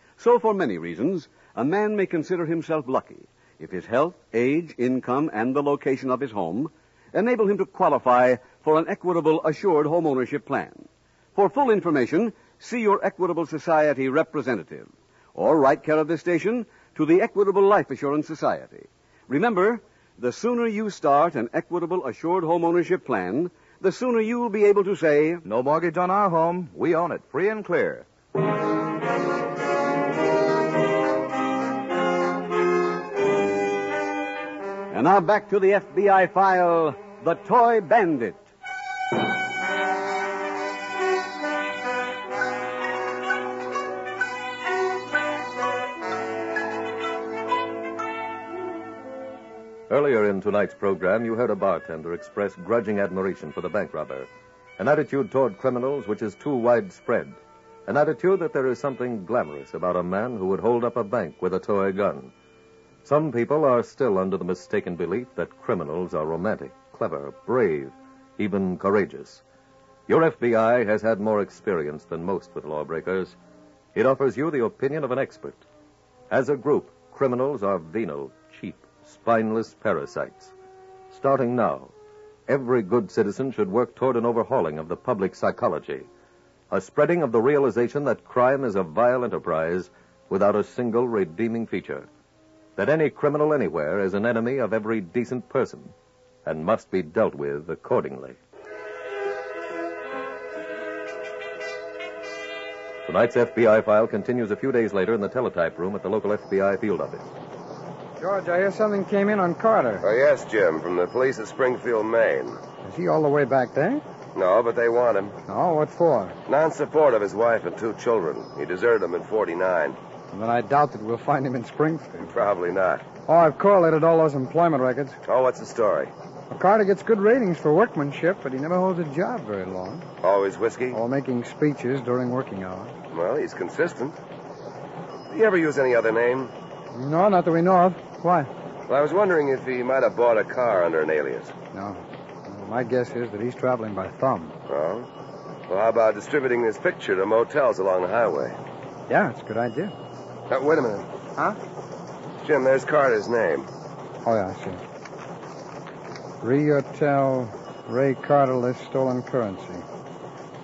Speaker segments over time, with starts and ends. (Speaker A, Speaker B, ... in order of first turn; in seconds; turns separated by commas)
Speaker A: 0.2-25.4, Speaker B: 25.4-28.1, Speaker A: 34.9-38.5, Speaker C: 49.9-62.3, Speaker C: 63.0-69.4, Speaker C: 70.1-73.3, Speaker C: 73.9-75.6, Speaker C: 76.3-80.5, Speaker C: 81.1-81.9, Speaker C: 82.5-86.1, Speaker C: 86.7-92.1, Speaker C: 92.8-95.9, Speaker C: 96.4-98.4, Speaker C: 103.0-107.3, Speaker D: 108.2-110.0, Speaker E: 110.0-112.6, Speaker D: 112.8-114.0, Speaker E: 114.3-115.4, Speaker D: 115.5-116.4, Speaker E: 116.5-120.0, Speaker D: 120.3-122.3, Speaker E: 122.3-123.0, Speaker D: 123.3-125.2, Speaker E: 125.2-126.1, Speaker D: 126.5-130.1, Speaker E: 130.2-131.0, Speaker D: 130.9-132.9, Speaker E: 133.1-134.2, Speaker E: 135.3-136.5, Speaker D: 136.9-138.5, Speaker E: 138.9-141.5, Speaker D: 141.7-144.5, Speaker E: 144.7-145.1, Speaker E: 145.7-148.6, Speaker D: 149.1-149.9, Speaker E: 150.5-151.1, Speaker E: 152.4-153.7, Speaker D: 154.2-154.8, Speaker D: 156.4-159.8